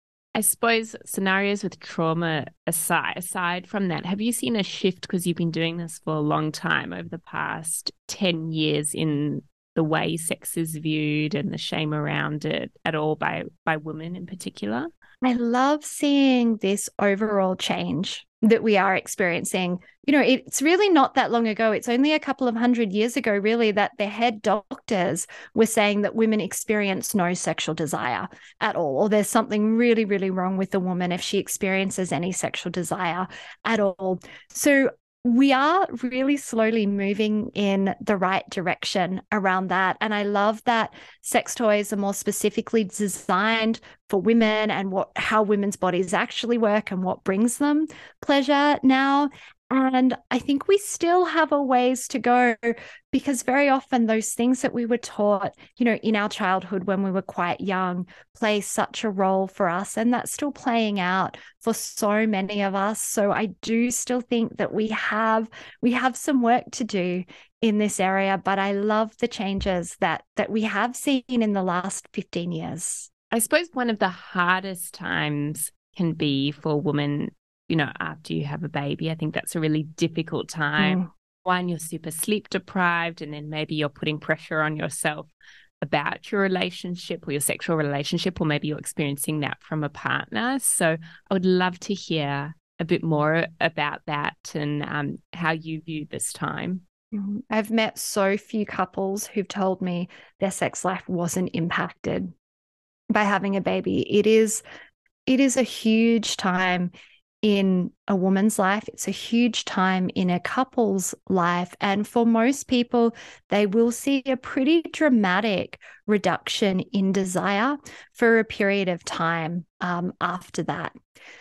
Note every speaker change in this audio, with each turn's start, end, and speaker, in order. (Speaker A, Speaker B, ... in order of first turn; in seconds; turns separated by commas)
Speaker A: 0.3-14.9, Speaker B: 15.2-73.1, Speaker A: 73.3-85.3, Speaker B: 80.8-81.0, Speaker A: 85.8-96.8, Speaker B: 97.1-102.3, Speaker B: 103.1-104.6, Speaker B: 105.3-106.9, Speaker B: 107.4-120.9